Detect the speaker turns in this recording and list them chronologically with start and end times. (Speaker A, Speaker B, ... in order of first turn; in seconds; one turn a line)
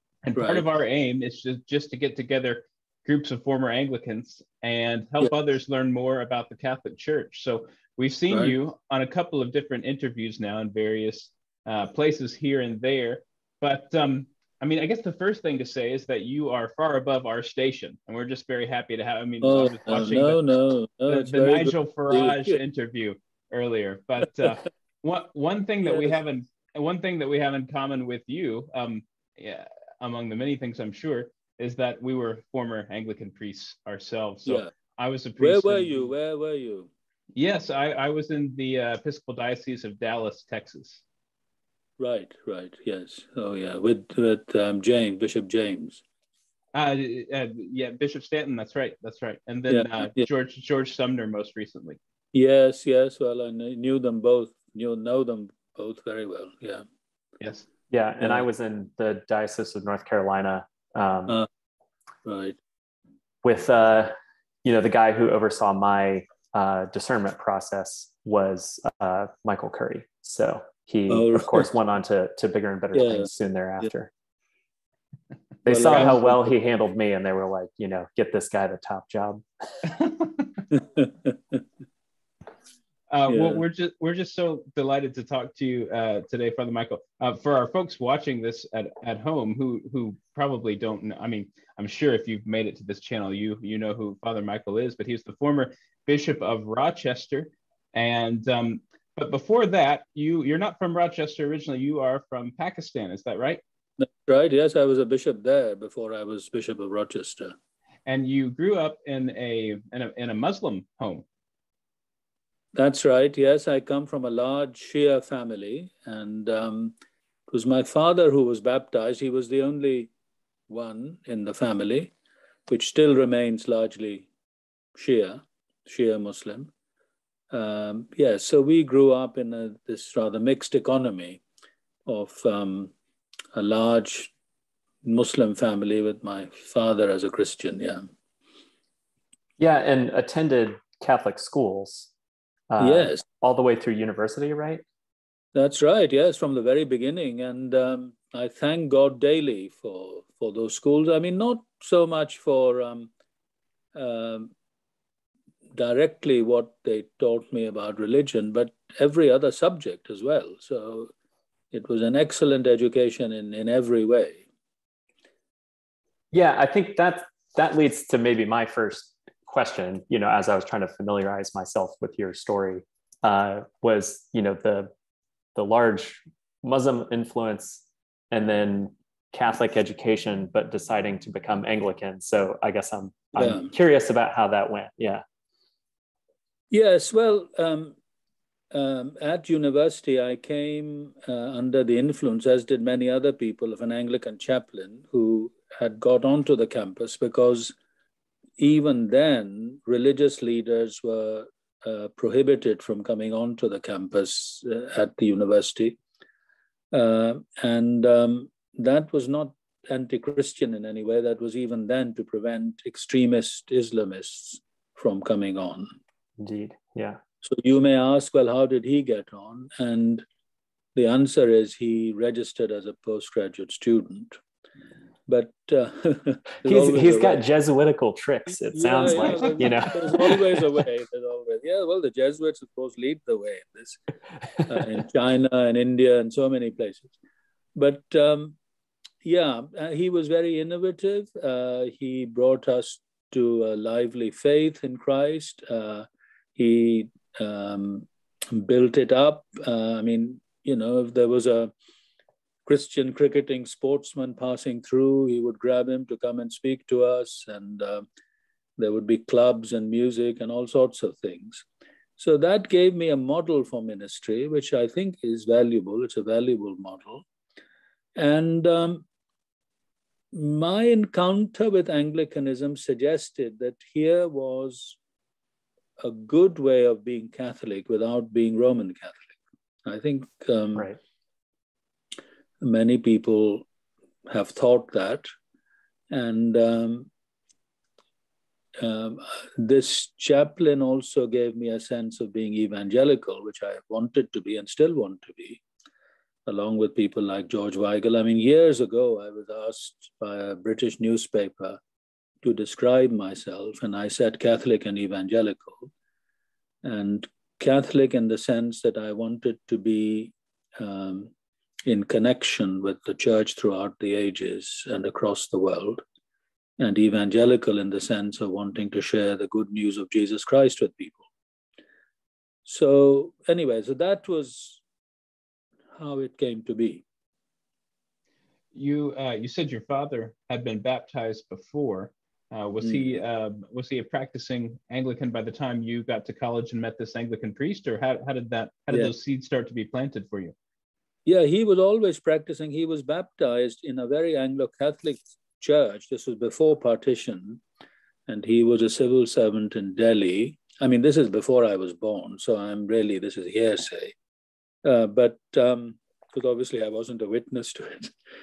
Speaker A: 0.2-20.4
Speaker B: 0.4-0.7
Speaker B: 19.4-22.6
Speaker A: 21.1-36.1
Speaker B: 25.8-26.2
Speaker B: 34.4-34.7
Speaker B: 35.4-36.9
Speaker A: 37.3-41.0
Speaker B: 42.0-46.0
Speaker A: 46.7-52.0
Speaker B: 49.7-50.3
Speaker B: 52.3-56.8
Speaker A: 57.4-57.6
Speaker C: 57.9-61.4
Speaker B: 62.2-62.6
Speaker C: 63.4-74.1
Speaker B: 71.1-71.7
Speaker B: 72.9-73.3
Speaker C: 75.6-79.4
Speaker B: 75.7-76.5
Speaker A: 75.9-76.1
Speaker A: 80.0-80.4
Speaker B: 80.7-81.6
Speaker A: 83.1-103.6
Speaker B: 83.3-83.6
Speaker B: 104.0-107.5
Speaker A: 108.0-111.2
Speaker B: 112.7-116.9
Speaker B: 117.5-120.1
Speaker B: 120.7-122.1
Speaker B: 122.7-124.3
Speaker B: 124.9-126.7
Speaker B: 127.5-131.4
Speaker B: 132.1-132.9
Speaker B: 133.5-134.3
Speaker B: 135.0-138.1
Speaker C: 139.6-142.1
Speaker C: 142.7-144.8
Speaker B: 142.8-143.2
Speaker B: 145.5-153.1
Speaker B: 153.9-154.5
Speaker B: 155.7-161.1
Speaker B: 161.7-164.4
Speaker C: 166.3-174.9
Speaker C: 175.5-185.2
Speaker B: 183.3-183.7
Speaker B: 186.7-187.9
Speaker B: 188.7-197.7
Speaker B: 198.6-206.0
Speaker B: 206.9-215.9
Speaker C: 216.4-217.2
Speaker B: 217.4-220.2
Speaker B: 220.9-224.4
Speaker B: 225.3-227.4
Speaker C: 226.6-230.6
Speaker B: 228.6-234.0
Speaker B: 234.6-237.1
Speaker B: 237.7-238.6
Speaker B: 239.2-251.7
Speaker B: 252.7-258.0
Speaker B: 258.8-261.6
Speaker B: 262.2-267.2
Speaker B: 268.1-269.0
Speaker B: 270.3-275.0
Speaker B: 276.0-280.9
Speaker B: 282.6-283.6
Speaker B: 284.3-285.3
Speaker B: 286.1-287.1
Speaker B: 288.8-295.6
Speaker B: 296.4-301.8
Speaker B: 302.4-305.9
Speaker B: 306.8-311.3
Speaker B: 311.9-316.0
Speaker B: 316.8-321.3
Speaker B: 322.6-324.8
Speaker B: 325.9-327.0
Speaker A: 328.7-340.5
Speaker B: 332.8-333.2
Speaker B: 341.2-347.6
Speaker B: 348.3-354.1
Speaker B: 354.8-358.1